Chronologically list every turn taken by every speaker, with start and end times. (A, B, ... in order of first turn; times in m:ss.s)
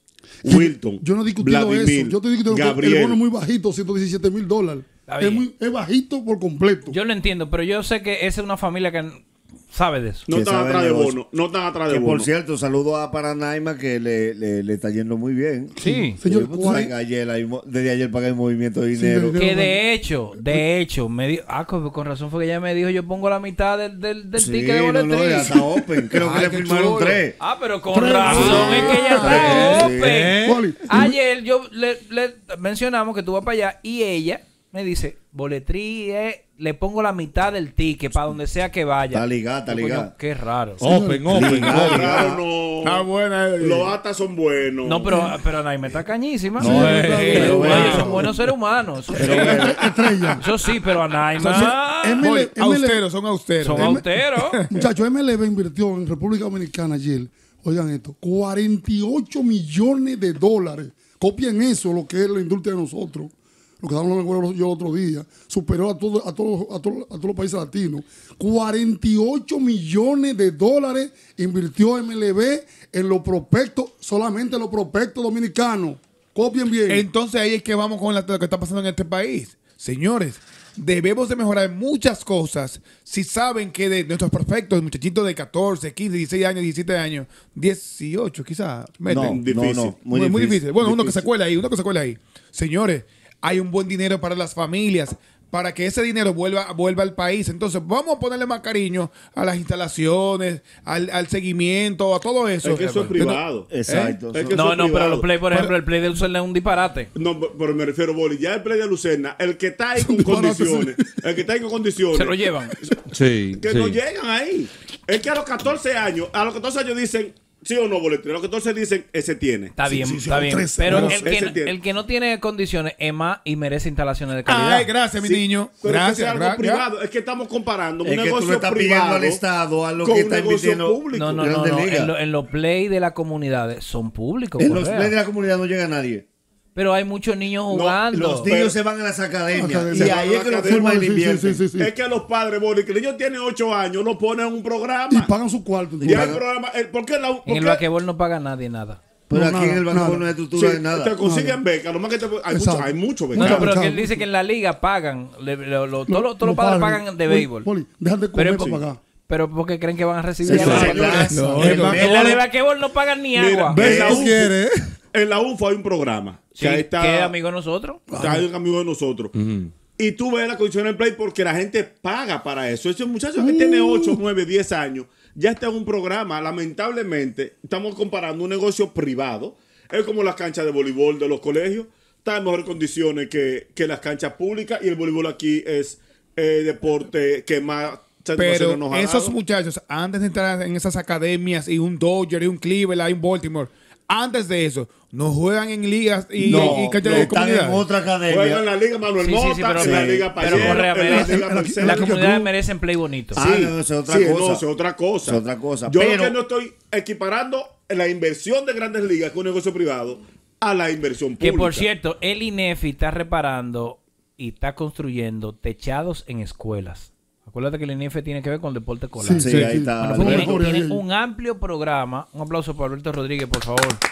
0:00.4-0:03.2 A
0:00.4-0:07.0 B
0:05.1-0:05.5 C
0:06.9-0:10.3 C
0:10.3-0:12.3 A
0:10.3-0:11.2 D
0:11.9-0:19.4 D
0:15.8-0:16.9 B
0:15.8-0:16.2 C
0:18.9-0:19.8 B
0:19.4-0:25.6 C
0:24.4-0:27.4 D
0:26.2-0:27.0 E
0:26.8-0:27.2 F
0:27.4-0:40.8 C
0:27.9-0:31.2 B
0:28.2-0:30.3 D
0:28.2-0:28.8 F
0:29.9-0:30.6 F
0:39.1-0:40.1 D
0:40.8-0:41.4 B
0:40.8-0:42.0 F
0:41.3-0:42.4 D
0:41.6-0:45.2 A
0:42.8-0:43.9 E
0:44.8-0:49.8 C
0:45.1-0:45.4 B
0:46.6-0:48.3 B
0:46.6-0:48.2 F
0:46.8-0:47.6 E
0:47.3-0:48.1 D
0:49.2-0:49.8 D
0:49.2-0:50.4 B
0:50.4-0:52.3 C
0:51.4-0:54.7 E
0:51.6-0:53.1 B
0:53.6-0:54.6 C
0:53.7-0:54.0 B
0:54.7-1:17.1 B
1:16.9-1:29.3 E
1:29.1-1:30.8 D
1:29.2-1:30.0 A
1:30.1-1:43.4 E
1:30.8-1:31.2 A
1:42.6-1:43.7 A
1:43.7-1:44.6 D
1:43.9-1:47.1 C
1:44.3-1:45.3 A
1:47.2-1:52.9 A
1:50.0-1:51.2 B
1:52.1-1:52.8 C
1:53.1-1:53.9 F
1:53.6-1:59.8 A
1:59.8-2:04.9 C
1:59.8-2:01.1 B
2:00.9-2:01.8 A
2:00.9-2:01.2 E
2:04.5-2:06.8 E
2:05.2-2:09.4 A
2:08.0-2:12.1 D
2:10.0-2:11.5 A
2:11.1-2:15.2 C
2:14.6-2:16.2 D
2:16.8-2:18.5 C
2:17.7-2:18.8 A
2:18.1-2:21.6 D
2:19.5-2:21.9 B
2:19.9-2:20.8 A
2:21.8-2:25.3 A
2:25.1-2:26.4 B
2:26.0-2:27.8 A
2:27.5-2:29.0 C
2:29.3-2:31.2 D
2:29.3-2:30.3 B
2:30.5-2:33.8 A
2:31.2-2:31.6 B
2:32.5-2:34.2 B
2:33.4-2:37.7 C
2:36.1-2:39.0 B
2:38.4-2:40.9 C
2:38.6-2:38.8 A
2:40.4-2:41.8 B
2:40.5-2:42.4 D
2:40.5-2:42.4 F
2:40.6-2:41.2 A
2:41.4-2:44.0 C
2:43.3-2:44.5 A
2:43.8-2:44.3 D
2:43.8-2:44.8 F
2:45.1-2:47.3 A
2:46.5-2:48.0 C
2:48.1-2:48.5 B
2:48.2-3:09.4 A
2:49.4-2:49.7 F
2:53.4-2:54.2 B
3:08.4-3:17.8 E
3:16.4-3:18.7 D
3:16.5-3:17.4 A
3:18.3-3:22.2 A
3:19.2-3:23.4 C
3:19.8-3:20.8 D
3:21.1-3:22.5 B
3:23.3-3:31.9 A
3:23.3-3:24.7 D
3:25.2-3:26.4 D
3:31.4-3:44.0 C
3:39.2-3:41.0 B
3:39.4-3:40.6 D